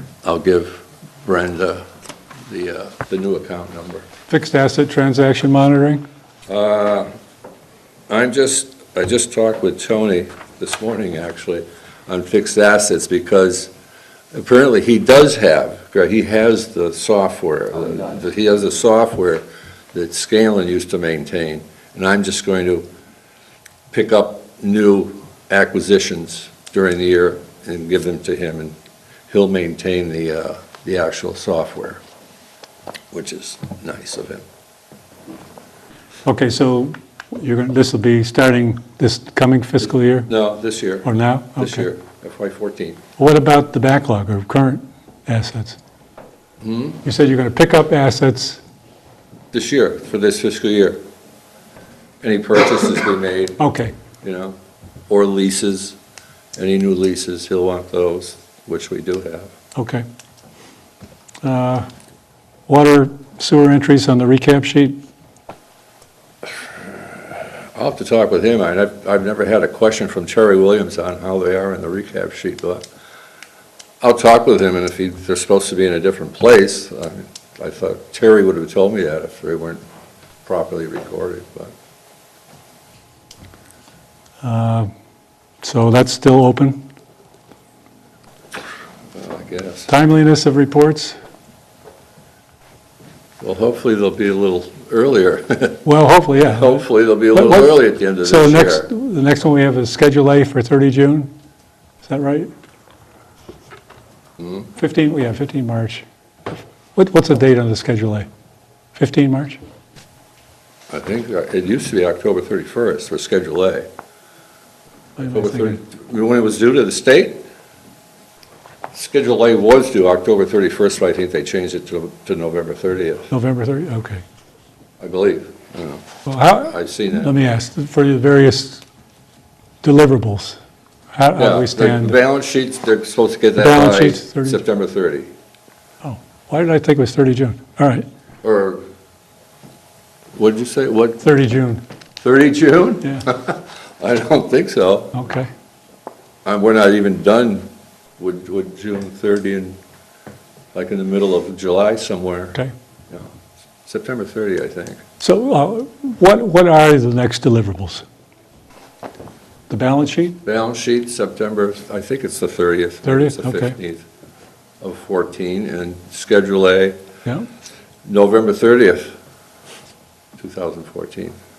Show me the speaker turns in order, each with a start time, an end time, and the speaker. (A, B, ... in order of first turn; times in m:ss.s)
0:00.2-0:01.8 A
0:02.5-0:04.1 A
0:04.3-0:06.0 B
0:06.5-0:07.1 A
0:08.1-0:13.7 A
0:14.3-0:22.9 A
0:23.9-0:28.8 A
0:29.3-0:32.0 A
0:33.1-0:34.4 A
0:36.2-0:40.3 B
0:40.3-0:43.0 A
0:41.0-0:41.9 B
0:43.2-0:45.8 B
0:46.6-0:47.0 A
0:47.0-0:48.6 B
0:49.5-0:51.0 A
0:52.2-0:53.6 A
0:53.6-0:53.9 B
0:54.2-0:54.6 A
0:55.1-0:56.0 A
0:56.6-0:59.5 A
0:59.8-1:00.0 B
1:01.4-1:01.9 B
1:02.7-1:05.0 B
1:07.8-1:12.8 A
1:14.0-1:19.8 A
1:20.5-1:21.7 A
1:24.4-1:24.9 B
1:25.6-1:26.8 B
1:29.1-1:29.9 A
1:29.9-1:31.2 B
1:33.4-1:35.8 A
1:35.8-1:41.3 B
1:36.4-1:38.9 A
1:42.0-1:42.5 B
1:44.4-1:44.7 A
1:44.8-1:46.0 B
1:47.0-1:48.3 B
1:49.0-1:49.6 B
1:50.9-1:53.9 A
1:55.2-1:55.8 B
1:55.2-1:57.4 A
1:58.9-2:03.3 A
2:03.3-2:04.2 B
2:05.0-2:07.3 A
2:06.3-2:08.8 B
2:09.8-2:10.6 B
2:11.1-2:12.2 B
2:11.4-2:15.3 A
2:13.6-2:14.6 B
2:16.0-2:18.1 B
2:18.4-2:18.8 A
2:20.4-2:21.2 A
2:21.2-2:21.8 B
2:22.2-2:25.2 A
2:25.1-2:25.5 B
2:26.4-2:27.7 A
2:28.2-2:29.8 A
2:30.7-2:32.6 A
2:33.9-2:35.0 A
2:35.2-2:38.0 B
2:39.7-2:40.4 B
2:40.4-2:44.0 A
2:43.0-2:43.8 B
2:44.8-2:47.0 A
2:48.0-2:49.1 A
2:50.4-2:51.4 A